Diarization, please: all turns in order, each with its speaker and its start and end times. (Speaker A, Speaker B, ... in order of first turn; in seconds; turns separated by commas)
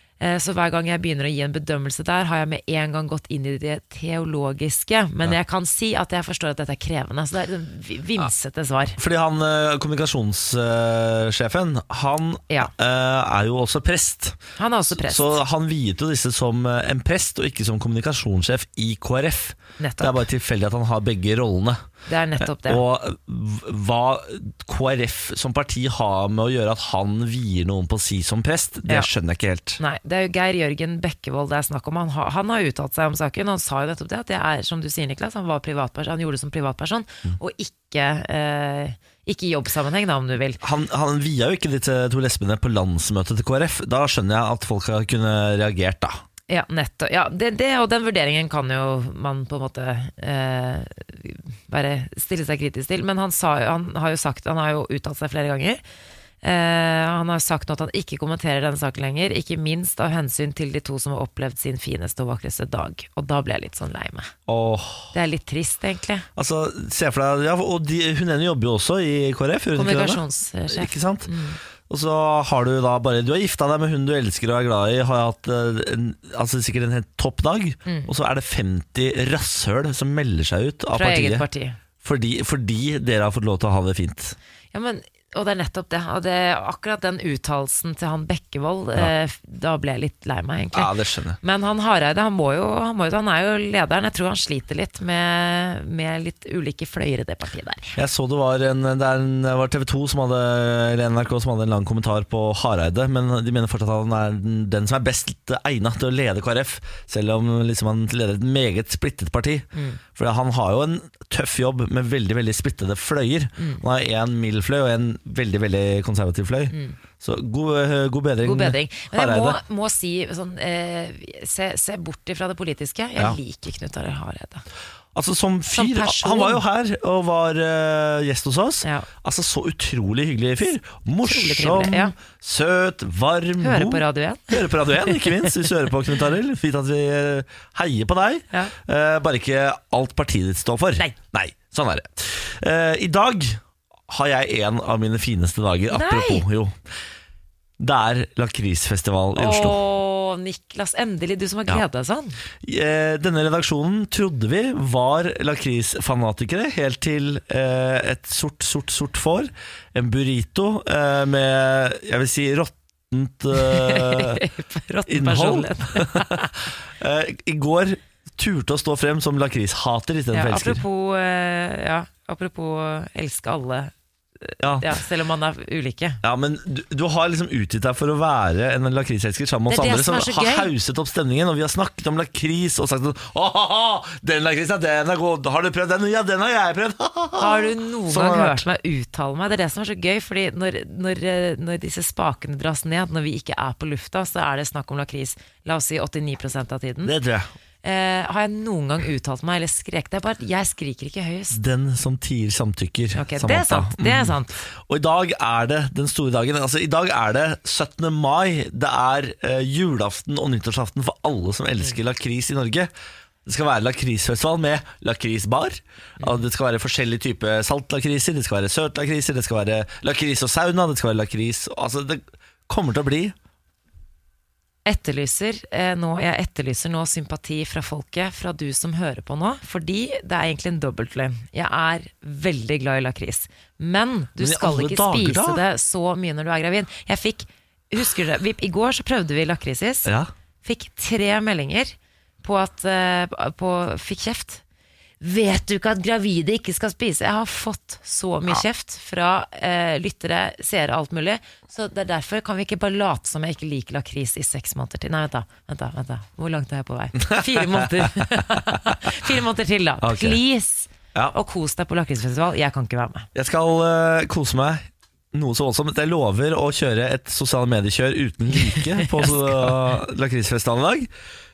Speaker A: 0.2-9.0, Speaker B: 9.0-14.4, Speaker A: 14.6-15.4, Speaker B: 14.9-21.8, Speaker A: 19.8-20.2, Speaker A: 22.1-22.8, Speaker B: 22.4-29.8, Speaker A: 29.8-40.6, Speaker B: 40.6-46.2, Speaker A: 46.5-55.8, Speaker A: 56.4-64.3, Speaker B: 64.5-65.1, Speaker A: 65.1-66.3, Speaker B: 66.3-71.3, Speaker A: 69.8-71.6, Speaker B: 71.9-81.4, Speaker A: 77.8-78.1, Speaker A: 80.9-81.8, Speaker B: 82.0-84.3, Speaker A: 84.7-98.0, Speaker B: 90.7-91.4, Speaker B: 98.0-119.6, Speaker A: 109.7-110.0, Speaker A: 113.6-113.8, Speaker A: 116.7-117.0, Speaker A: 118.4-124.6, Speaker B: 125.1-146.7, Speaker A: 125.7-126.6, Speaker A: 131.2-132.1, Speaker A: 133.6-135.6, Speaker A: 145.9-146.4, Speaker B: 147.8-149.8, Speaker A: 149.4-152.4, Speaker B: 152.6-164.4, Speaker A: 163.5-166.5, Speaker B: 165.1-170.8, Speaker A: 170.3-173.9, Speaker A: 174.4-176.2, Speaker B: 174.6-174.9, Speaker B: 176.2-188.6, Speaker A: 179.7-180.7, Speaker A: 187.4-197.1, Speaker B: 197.0-197.5, Speaker A: 197.8-201.6, Speaker B: 201.5-212.9, Speaker A: 203.1-204.5, Speaker B: 213.4-223.3, Speaker A: 224.8-240.1, Speaker B: 234.4-235.6, Speaker B: 240.1-240.3, Speaker A: 240.6-244.6, Speaker A: 245.2-263.3, Speaker B: 257.2-258.5, Speaker B: 260.0-260.4, Speaker B: 263.3-271.1, Speaker A: 268.5-269.8